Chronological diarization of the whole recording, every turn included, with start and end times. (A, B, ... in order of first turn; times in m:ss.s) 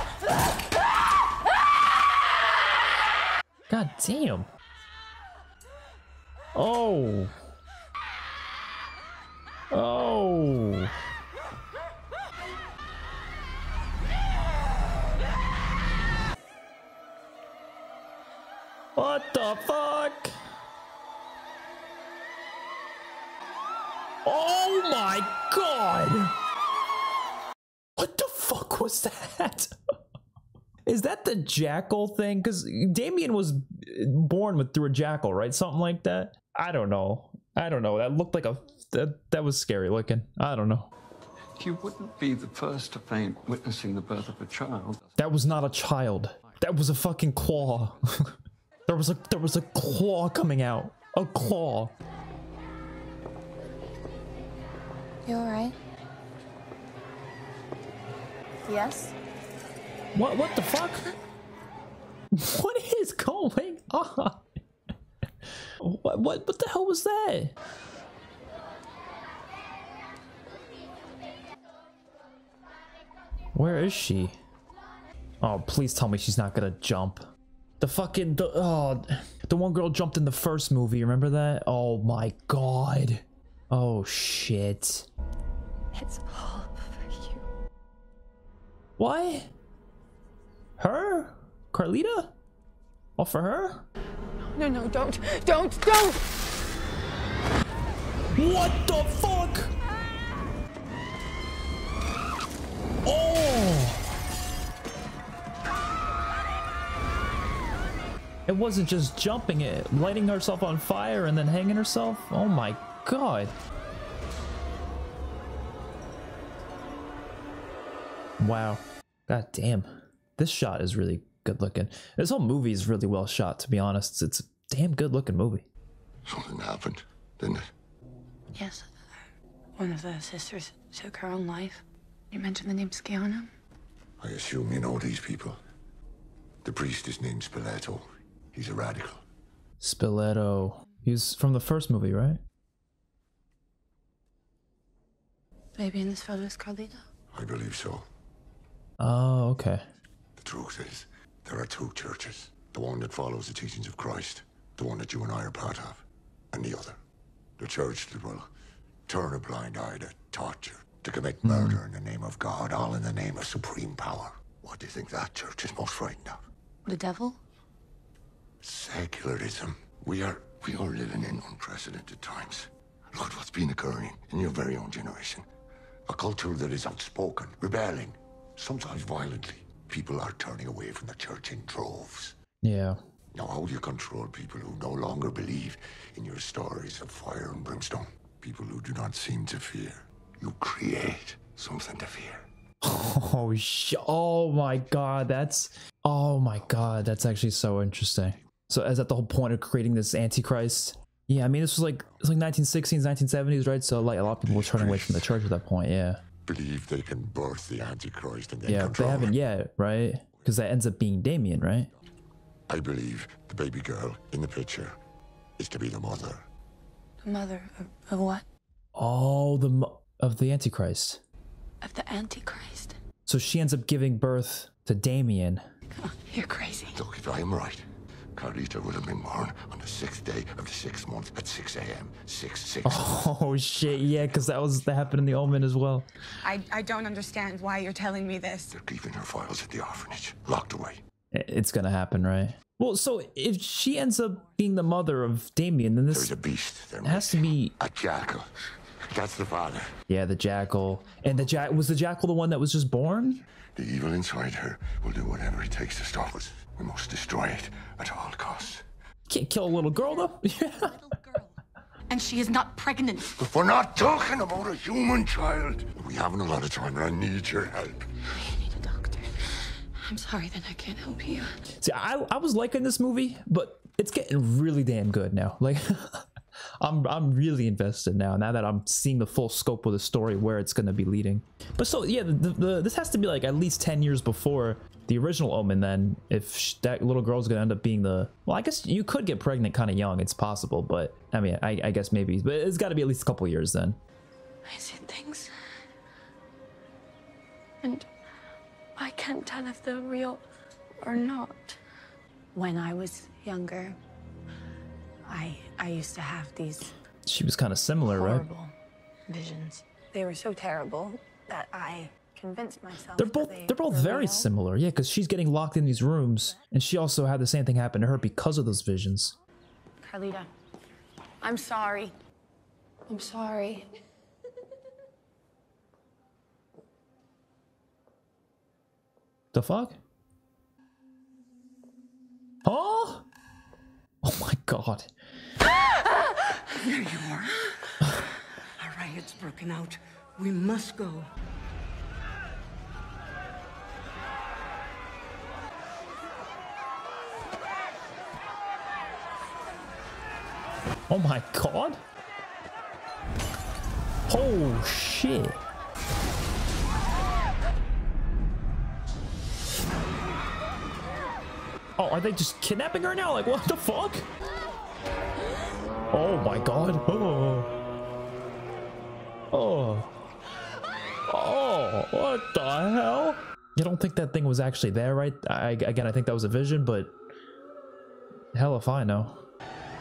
0:03.7-0:04.5 A
0:06.6-0:07.3 A
0:09.7-0:10.9 A
0:19.0-0:20.3 A
0:24.2-0:26.3 A
0:28.0-0:29.7 A
0:30.9-0:40.9 A
0:41.6-0:45.1 B
0:45.2-0:48.3 A
0:48.9-0:52.0 A
0:55.2-0:55.8 C
0:58.6-0:59.2 C
1:00.2-1:01.1 A
1:02.3-1:04.4 A
1:05.8-1:07.6 A
1:13.6-1:14.4 A
1:15.4-1:17.2 A
1:17.8-1:25.1 A
1:25.9-1:27.4 C
1:29.0-1:29.5 A
1:30.8-1:32.3 A
1:33.2-1:33.9 A
1:34.6-1:36.2 C
1:38.3-1:39.7 A
1:43.1-1:44.0 A
1:48.5-1:53.6 A
1:58.4-2:05.7 A
2:06.2-2:07.7 D
2:08.5-2:08.9 C
2:09.8-2:13.5 C
2:14.2-2:15.6 D
2:16.6-2:19.2 D
2:19.8-2:22.4 A
2:25.8-2:27.0 C
2:27.3-2:28.1 D
2:29.0-2:29.8 A
2:30.4-2:37.0 D
2:37.6-2:38.5 D
2:39.1-2:46.4 D
2:41.4-2:41.7 A
2:46.9-2:47.4 C
2:48.6-2:55.5 D
2:56.1-3:02.4 D
3:02.6-3:03.0 A
3:03.3-3:12.5 D
3:12.8-3:26.2 A
3:24.3-3:25.4 D
3:26.4-3:29.4 D
3:28.7-3:31.9 A
3:32.7-3:35.0 D
3:35.6-3:36.5 D
3:37.2-3:38.4 C
3:39.0-3:41.2 A
3:41.8-3:43.0 C
3:43.3-3:45.6 A
3:46.0-3:47.0 C
3:46.9-3:53.2 D
3:52.8-3:56.1 A
3:56.4-3:58.7 C
3:58.7-4:01.0 D
4:01.3-4:06.4 A
4:06.1-4:08.5 D
4:07.0-4:07.7 A
4:09.1-4:10.0 D
4:10.1-4:13.4 A
4:13.7-4:18.8 D
4:19.3-4:21.1 A
4:22.1-4:23.4 C
4:23.4-4:28.1 D
4:28.3-4:31.6 C
4:31.8-4:36.3 A
4:36.8-4:54.0 A
4:54.7-4:55.5 C
4:59.0-5:00.4 C
5:01.0-5:01.8 C
5:02.6-5:04.0 C
5:05.3-5:06.9 C
5:07.3-5:08.5 A
5:08.1-5:08.7 C
5:09.3-5:14.5 C
5:13.2-5:19.4 A
5:20.0-5:20.5 C
5:21.4-5:22.2 C
5:23.1-5:23.9 C
5:29.5-5:30.0 A
5:32.6-5:33.3 A
5:34.2-5:35.1 A
5:36.8-5:37.7 E
5:38.8-5:41.3 E
5:51.1-5:52.0 A
5:54.3-5:55.6 A
6:02.0-6:04.3 A
6:06.1-6:07.7 A
6:09.5-6:10.1 A
6:11.3-6:17.2 A
6:18.6-6:19.4 A